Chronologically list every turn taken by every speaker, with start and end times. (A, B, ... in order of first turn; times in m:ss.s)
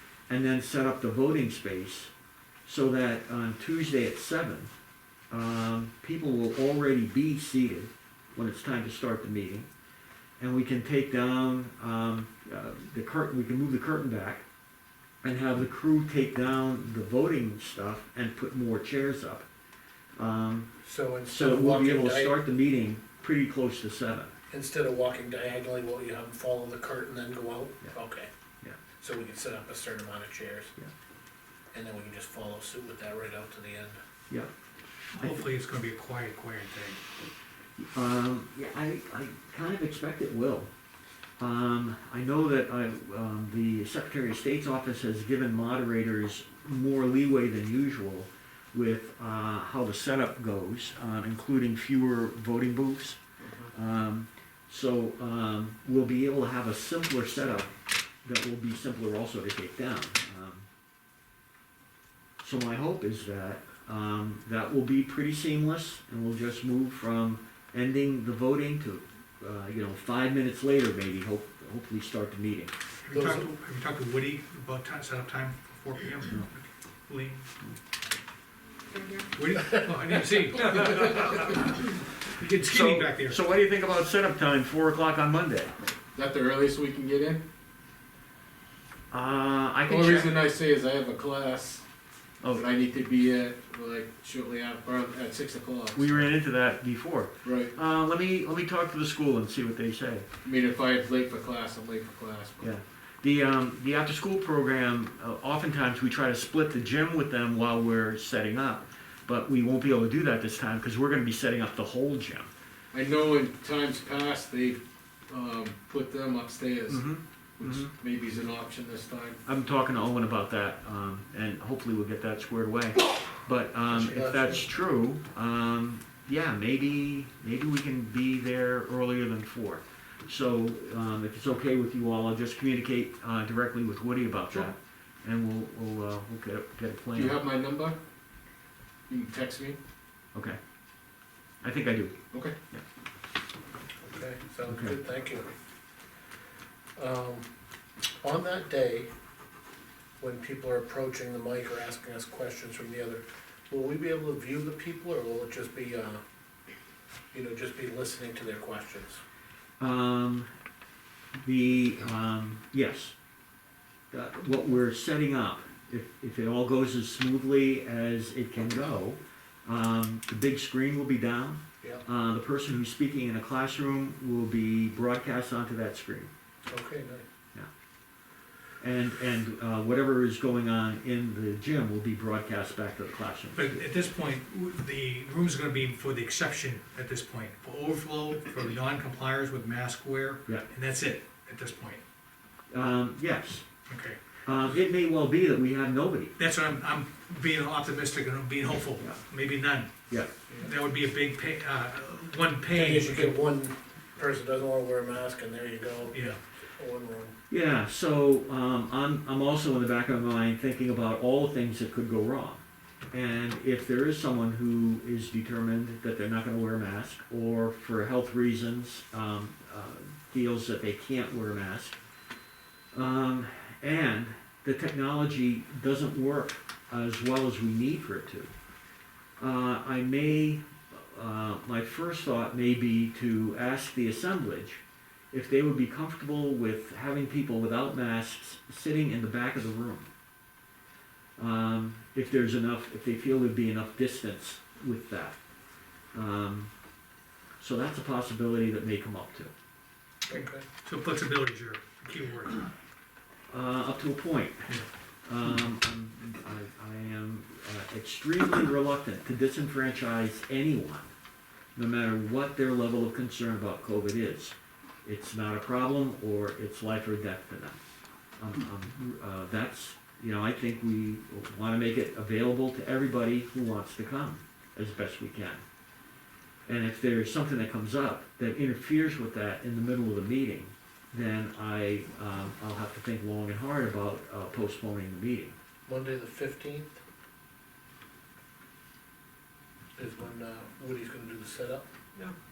0:00.3-0:02.1 A
0:02.7-0:04.7 A
0:05.3-0:09.7 A
0:10.4-0:14.4 A
0:15.2-0:19.5 A
0:20.2-0:24.3 A
0:20.8-0:22.4 B
0:24.5-0:28.3 B
0:29.0-0:30.7 B
0:31.7-0:34.0 B
0:35.1-0:37.0 C
0:37.8-0:40.7 A
0:41.4-0:53.2 A
0:53.7-1:00.7 A
1:02.4-1:12.7 A
1:13.0-1:17.5 C
1:13.1-1:13.5 B
1:19.4-1:23.4 C
1:22.5-1:25.7 A
1:26.2-1:27.4 D
1:29.1-1:30.3 A
1:29.9-1:31.8 D
1:32.5-1:36.3 D
1:36.0-1:40.3 A
1:37.4-1:37.8 D
1:40.4-1:42.7 D
1:42.6-1:52.5 A
1:52.9-1:59.4 D
1:56.9-1:57.9 A
1:59.4-2:17.4 A
2:03.9-2:04.7 B
2:17.1-2:18.0 D
2:19.1-2:19.8 D
2:20.3-2:20.6 A
2:21.6-2:22.8 A
2:22.3-2:22.6 D
2:24.0-2:25.5 B
2:24.7-2:25.0 A
2:27.0-2:27.5 B
2:28.2-2:29.1 B
2:30.2-2:36.2 B
2:37.3-2:39.2 B
2:39.8-2:40.5 A
2:41.4-2:43.1 A
2:44.1-2:56.3 A
2:56.7-2:57.2 B
2:58.8-3:03.8 A
3:03.6-3:12.0 C
3:12.7-3:13.6 A
3:13.9-3:14.2 C
3:14.5-3:16.3 A
3:16.4-3:19.9 C
3:20.6-3:23.3 C
3:22.7-3:27.4 B
3:26.1-3:26.4 C
3:27.5-3:32.6 A
3:33.1-3:42.0 A
3:42.9-3:48.5 A
3:49.4-4:00.1 A
4:01.4-4:05.4 A
4:06.1-4:06.7 A
4:07.6-4:09.5 A
4:10.3-4:10.6 B
4:10.3-4:12.7 C
4:13.5-4:21.1 A
4:21.8-4:27.8 A
4:28.4-4:35.6 A
4:36.7-4:45.6 A
4:45.9-4:47.0 B
4:50.0-4:51.9 B